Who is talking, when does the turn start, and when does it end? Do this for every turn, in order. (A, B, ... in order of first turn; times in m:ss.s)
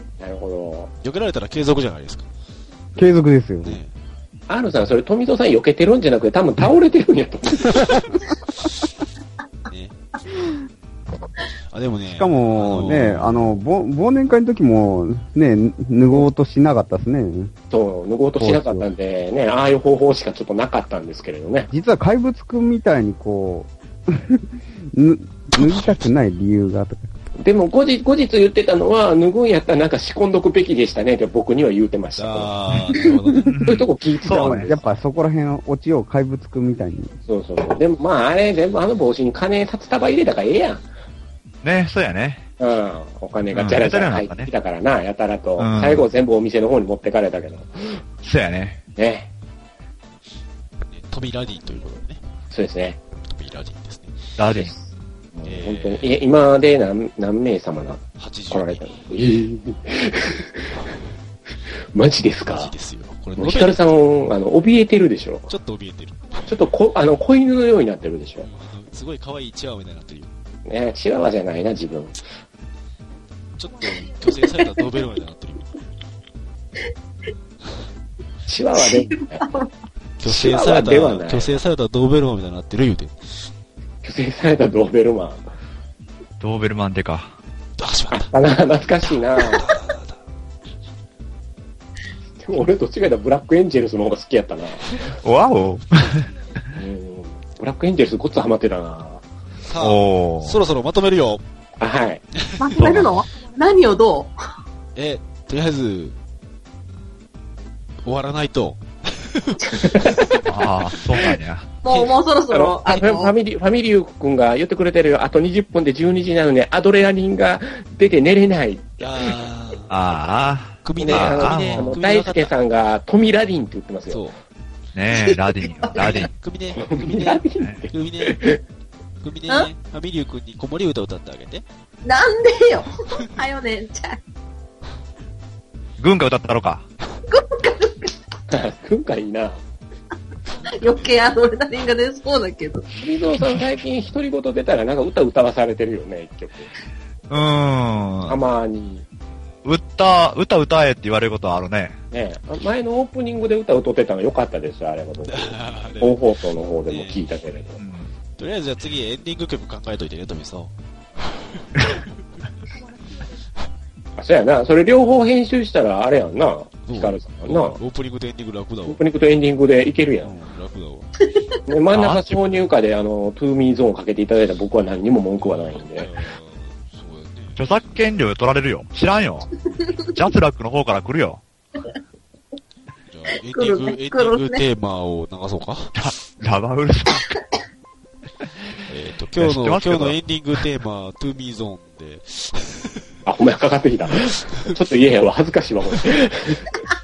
0:00.2-0:00.9 A
0:01.0-0:02.3 B
0:03.0-0:03.8 C
0:03.6-0:03.9 B
0:04.5-0:08.1 A
0:09.7-0:09.9 B
0:11.7-0:13.6 B
0:12.0-0:17.5 C
0:17.7-0:21.7 A
0:18.4-0:18.9 C
0:21.7-0:27.1 C
0:25.5-0:26.1 B
0:27.4-0:32.5 A
0:32.2-0:33.5 B
0:33.5-0:34.8 D
0:33.6-0:34.8 A
0:34.3-0:37.1 C
0:37.3-0:40.8 A
0:41.6-0:42.5 D
0:42.6-0:48.0 A
0:43.5-0:44.5 D
0:45.6-0:46.1 D
0:48.2-0:48.8 D
0:49.0-0:49.3 A
0:50.9-0:52.2 B
0:52.5-0:53.0 A
0:53.2-0:54.2 B
0:54.4-0:54.7 D
0:54.5-0:54.8 A
0:55.3-1:00.7 A
0:55.4-0:56.2 B
0:58.2-0:59.0 B
1:01.9-1:02.7 A
1:02.4-1:04.0 B
1:03.4-1:05.5 A
1:05.5-1:06.5 B
1:06.5-1:08.5 A
1:08.4-1:10.3 B
1:10.6-1:12.2 A
1:13.6-1:15.7 B
1:18.5-1:19.5 A
1:18.8-1:19.7 E
1:20.2-1:23.2 B
1:20.2-1:21.6 A
1:24.0-1:25.5 A
1:26.4-1:27.4 D
1:27.8-1:30.2 B
1:28.1-1:29.6 A
1:32.4-1:35.1 A
1:35.2-1:36.3 D
1:36.7-1:39.2 A
1:39.6-1:41.4 B
1:39.8-1:40.6 D
1:41.8-1:42.2 A
1:42.4-1:43.0 B
1:42.6-1:44.3 E
1:42.8-1:43.1 D
1:45.0-1:46.1 B
1:48.0-1:50.6 B
1:50.4-1:51.8 D
1:51.8-1:53.3 E
1:52.5-1:59.4 A
1:59.0-1:59.9 B
1:59.9-2:02.0 D
2:00.8-2:02.5 B
2:01.0-2:04.2 A
2:04.1-2:04.4 B
2:04.9-2:06.3 D
2:05.1-2:06.2 E
2:05.9-2:08.4 B
2:06.8-2:08.6 A
2:09.2-2:11.6 B
2:12.0-2:14.2 E
2:16.0-2:16.9 D
2:17.3-2:18.2 E
2:18.5-2:19.6 A
2:20.6-2:22.9 E
2:23.0-2:26.7 A
2:27.3-2:28.4 D
2:28.2-2:29.0 A
2:29.6-2:32.0 D
2:32.1-2:37.8 A
2:35.2-2:36.2 B
2:36.9-2:37.2 B
2:37.8-2:38.1 D
2:38.4-2:40.7 B
2:41.2-2:42.1 B
2:44.2-2:47.8 A
2:46.8-2:49.0 B
2:48.9-2:50.3 A
2:50.2-2:51.1 B
2:51.7-2:56.1 A
2:51.9-2:52.4 D
2:55.4-2:57.8 B
2:57.6-2:59.5 D
3:00.0-3:01.4 D
3:03.1-3:06.0 B
3:03.5-3:04.6 E
3:05.9-3:07.3 D
3:08.9-3:13.2 B
3:09.4-3:10.2 D
3:13.2-3:16.7 A